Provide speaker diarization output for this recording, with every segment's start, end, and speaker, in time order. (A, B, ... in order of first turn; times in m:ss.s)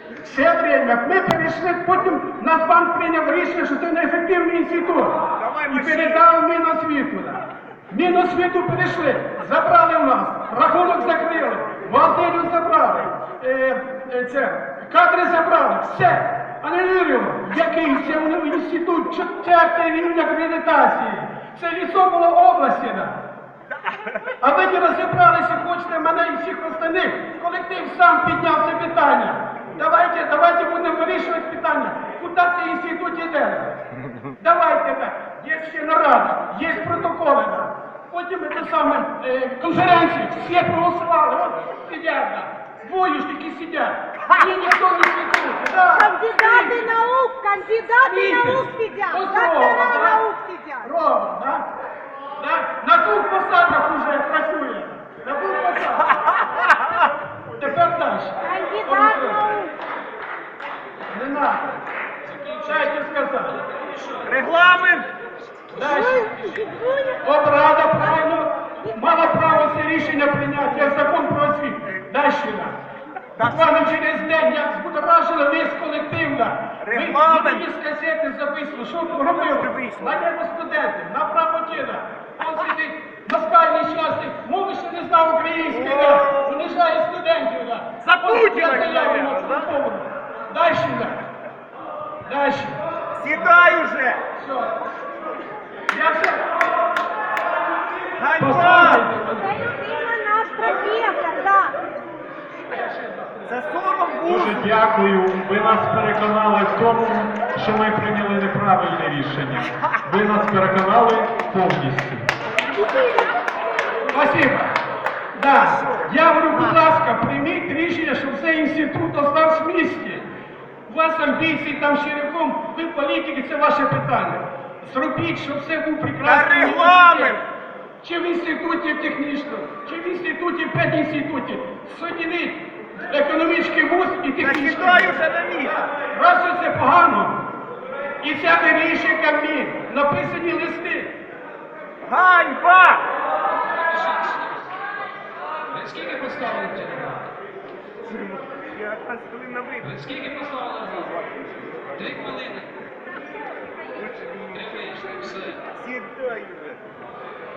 0:00.2-0:23.2 A
0:05.4-0:06.2 B
0:23.9-0:24.3 B
0:24.4-0:33.8 A
0:34.4-0:46.8 A
0:46.0-0:50.9 C
0:48.0-0:50.2 A
0:50.8-0:51.7 A
0:52.4-0:56.2 A
0:56.5-0:57.0 B
0:57.6-0:59.5 A
0:58.4-0:59.8 C
1:01.1-1:01.8 A
1:02.3-1:02.7 D
1:02.6-1:03.6 A
1:03.9-1:04.3 D
1:04.2-1:05.1 B
1:05.7-1:06.5 A
1:05.8-1:07.2 C
1:07.2-1:12.8 A
1:08.9-1:09.6 C
1:13.4-1:13.8 B
1:13.4-1:31.2 A
1:16.8-1:17.6 B
1:19.2-1:20.2 B
1:25.7-1:26.5 B
1:28.0-1:29.7 B
1:32.2-1:32.8 A
1:33.1-1:34.2 B
1:34.4-1:34.7 A
1:35.9-1:36.5 A
1:38.1-1:39.0 B
1:38.4-1:39.6 A
1:39.4-1:41.8 C
1:43.5-1:44.7 B
1:44.3-1:52.3 E
1:52.7-1:53.6 C
1:54.1-1:54.7 A
1:55.4-2:00.2 A
1:55.8-1:56.1 B
2:00.9-2:07.4 A
2:06.2-2:07.4 B
2:08.0-2:15.2 A
2:14.4-2:15.9 B
2:16.0-2:17.4 A
2:18.2-2:21.1 A
2:22.0-2:23.1 B
2:23.5-2:24.7 D
2:25.7-2:27.3 D
2:28.0-2:32.4 B
2:30.1-2:31.1 D
2:32.0-2:32.7 D
2:33.8-2:36.9 B
2:34.8-2:35.6 D